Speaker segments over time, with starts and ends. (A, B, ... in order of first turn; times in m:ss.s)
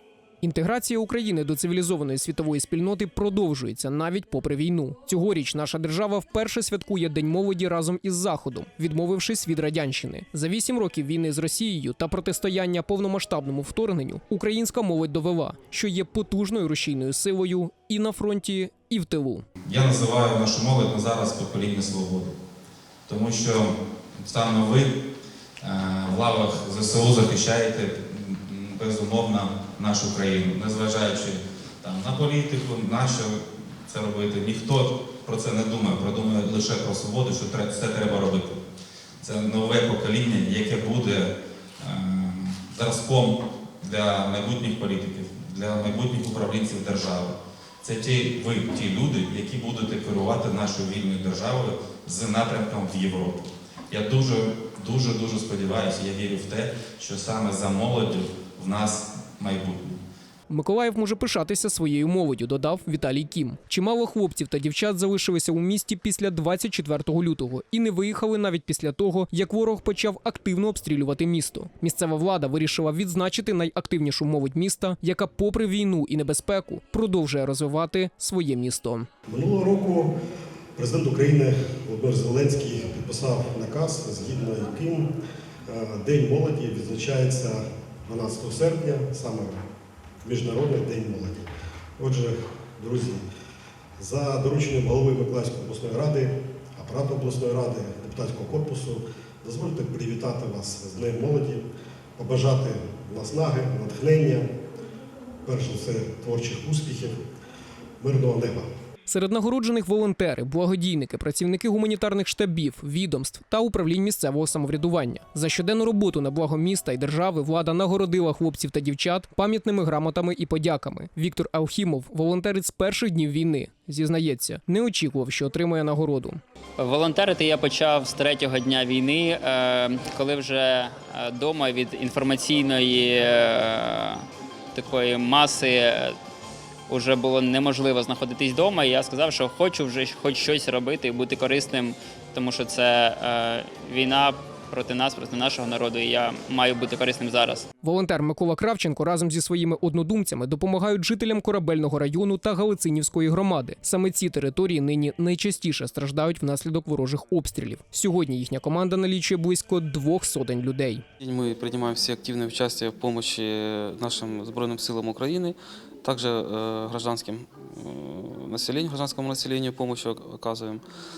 0:00.4-0:19.5 A
0:19.7-0:22.3 B
0:23.1-0:24.9 B
0:25.6-0:38.6 B
0:39.2-1:00.0 B
1:00.5-1:19.1 A
1:19.3-1:20.1 C
1:20.8-1:25.1 C
1:25.7-1:29.6 C
1:30.2-1:31.5 C
1:32.0-1:33.2 C
1:34.0-1:41.6 C
1:42.2-1:44.5 C
1:45.4-1:47.2 C
1:48.0-1:48.7 C
1:49.1-2:06.4 A
2:06.8-2:16.2 D
2:16.9-2:27.7 D
2:27.8-2:41.0 A
2:41.2-2:50.8 E